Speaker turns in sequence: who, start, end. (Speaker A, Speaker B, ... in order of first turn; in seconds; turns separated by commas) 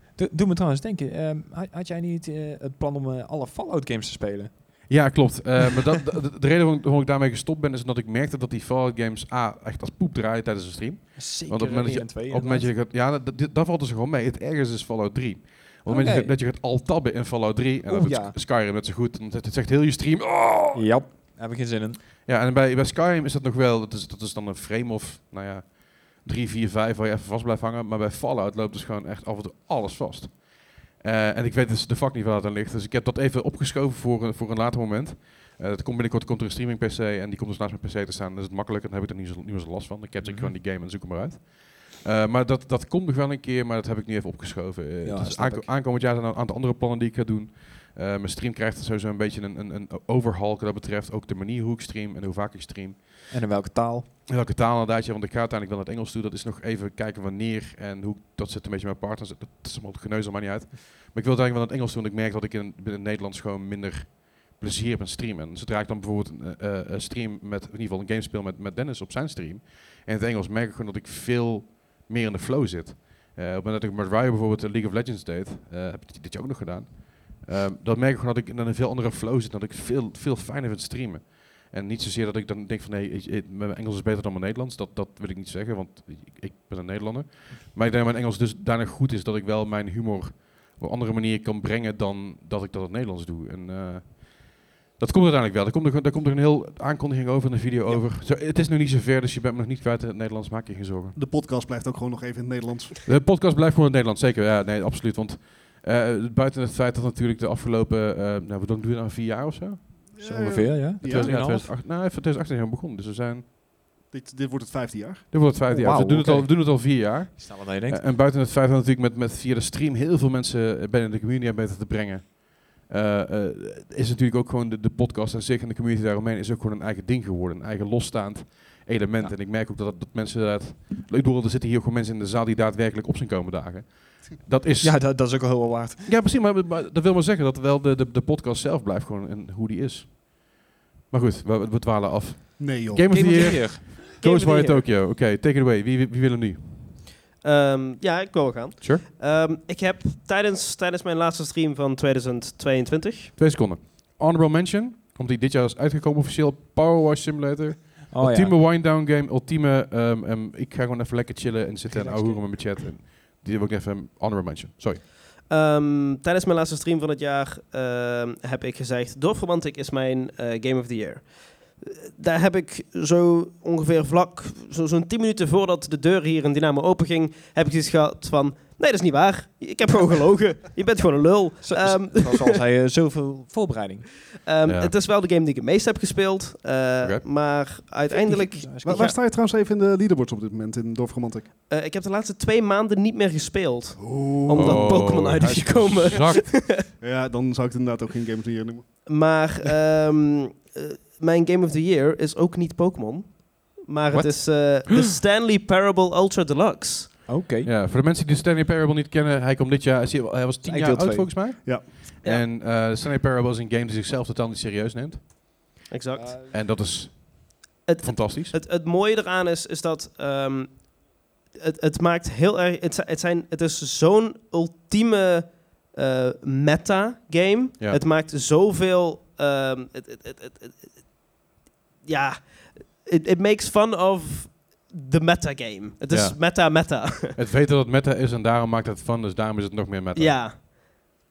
Speaker A: 0.1-5.1, Speaker B: 4.9-20.9, Speaker A: 11.2-12.8, Speaker A: 15.9-16.3, Speaker A: 17.9-18.4, Speaker A: 20.7-22.0, Speaker B: 22.2-53.3, Speaker A: 40.2-40.5, Speaker A: 45.0-45.7, Speaker A: 53.3-54.1, Speaker B: 54.2-101.2, Speaker C: 101.1-103.0, Speaker B: 103.0-113.4, Speaker C: 110.1-111.3, Speaker A: 110.2-111.7, Speaker C: 114.1-115.3, Speaker B: 115.3-147.0, Speaker A: 115.7-118.0, Speaker A: 134.8-136.1, Speaker C: 142.6-143.5, Speaker A: 143.1-144.1, Speaker D: 144.2-144.8, Speaker D: 147.4-153.3, Speaker B: 153.4-165.0, Speaker A: 158.1-158.5, Speaker A: 161.9-162.6, Speaker D: 165.5-182.6, Speaker A: 181.6-184.2, Speaker D: 184.4-189.2, Speaker B: 184.7-184.9, Speaker A: 188.1-189.2, Speaker C: 188.8-191.5, Speaker D: 191.7-196.8, Speaker C: 194.0-195.2, Speaker B: 194.5-196.5, Speaker C: 197.0-199.1, Speaker D: 199.1-207.2, Speaker A: 207.3-207.7, Speaker B: 207.6-215.6, Speaker A: 210.6-211.3, Speaker D: 215.9-216.4, Speaker A: 216.1-216.5, Speaker B: 216.5-218.6, Speaker D: 217.8-231.0, Speaker D: 232.0-237.4, Speaker B: 236.1-236.8, Speaker B: 237.3-240.4, Speaker D: 240.2-240.7